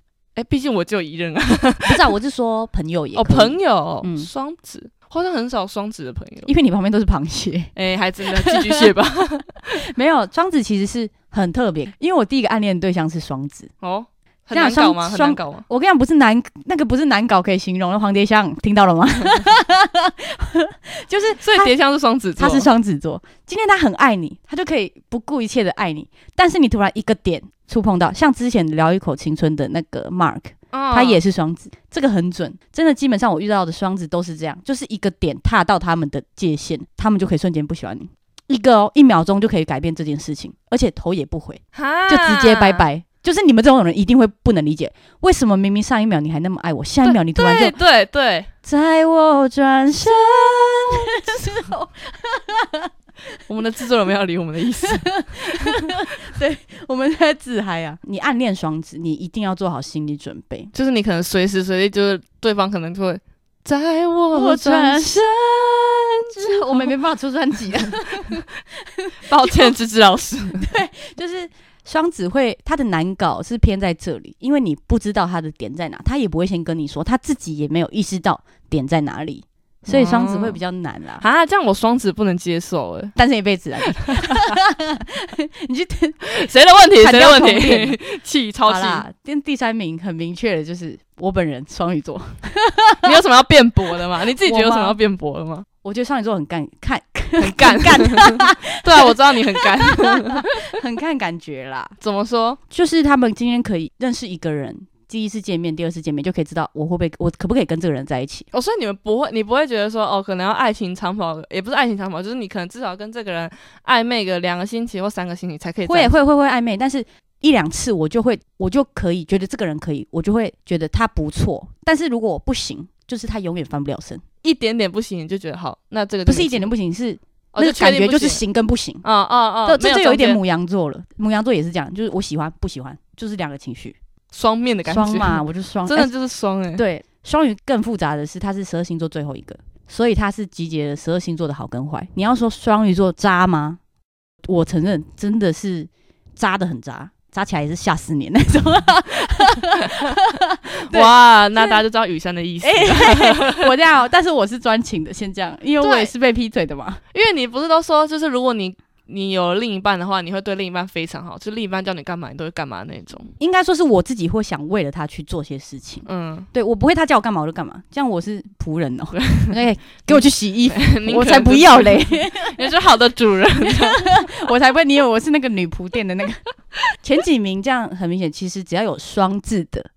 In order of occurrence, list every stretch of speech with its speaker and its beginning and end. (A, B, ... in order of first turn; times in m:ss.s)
0:00.4-0:02.0 A
0:01.8-0:04.3 B
0:03.1-0:06.5 A
0:06.4-0:07.7 B
0:07.8-0:09.8 A
0:08.2-0:08.9 B
0:09.7-0:13.7 B
0:13.8-0:15.6 A
0:14.5-0:21.7 B
0:21.4-0:22.7 A
0:22.4-0:47.7 B
0:30.7-0:31.2 A
0:41.7-0:42.8 A
0:47.0-0:48.5 A
0:48.6-0:52.9 B
0:50.1-0:51.0 A
0:53.5-0:55.8 A
0:54.9-1:00.7 B
1:00.7-1:06.9 A
1:04.3-1:05.2 B
1:06.3-1:08.4 B
1:09.3-1:10.7 A
1:09.4-1:09.7 B
1:10.6-1:21.2 B
1:19.9-1:20.6 A
1:21.2-1:23.1 A
1:23.2-1:26.4 B
1:23.8-1:24.5 A
1:26.3-1:29.0 A
1:27.0-1:28.0 B
1:28.6-1:33.1 B
1:33.0-1:35.6 A
1:34.4-1:35.0 B
1:35.8-1:42.0 B
1:37.4-1:40.6 A
1:42.0-1:42.6 A
1:42.7-1:48.5 B
1:48.5-1:56.2 A
1:55.8-2:04.2 B
2:04.4-2:06.7 A
2:06.2-2:09.0 B
2:07.5-2:08.4 A
2:09.0-2:10.4 A
2:09.6-2:14.0 B
2:14.3-2:16.8 A
2:14.8-2:16.1 B
2:16.8-2:23.8 B
2:24.4-2:31.8 B
2:30.9-2:33.7 A
2:32.6-2:37.0 B
2:35.8-2:36.1 A
2:37.1-2:43.3 A
2:43.4-2:52.7 B
2:46.0-2:46.5 A
2:49.1-2:49.5 A
2:50.1-2:54.0 A
2:53.6-2:56.4 B
2:57.0-2:59.9 B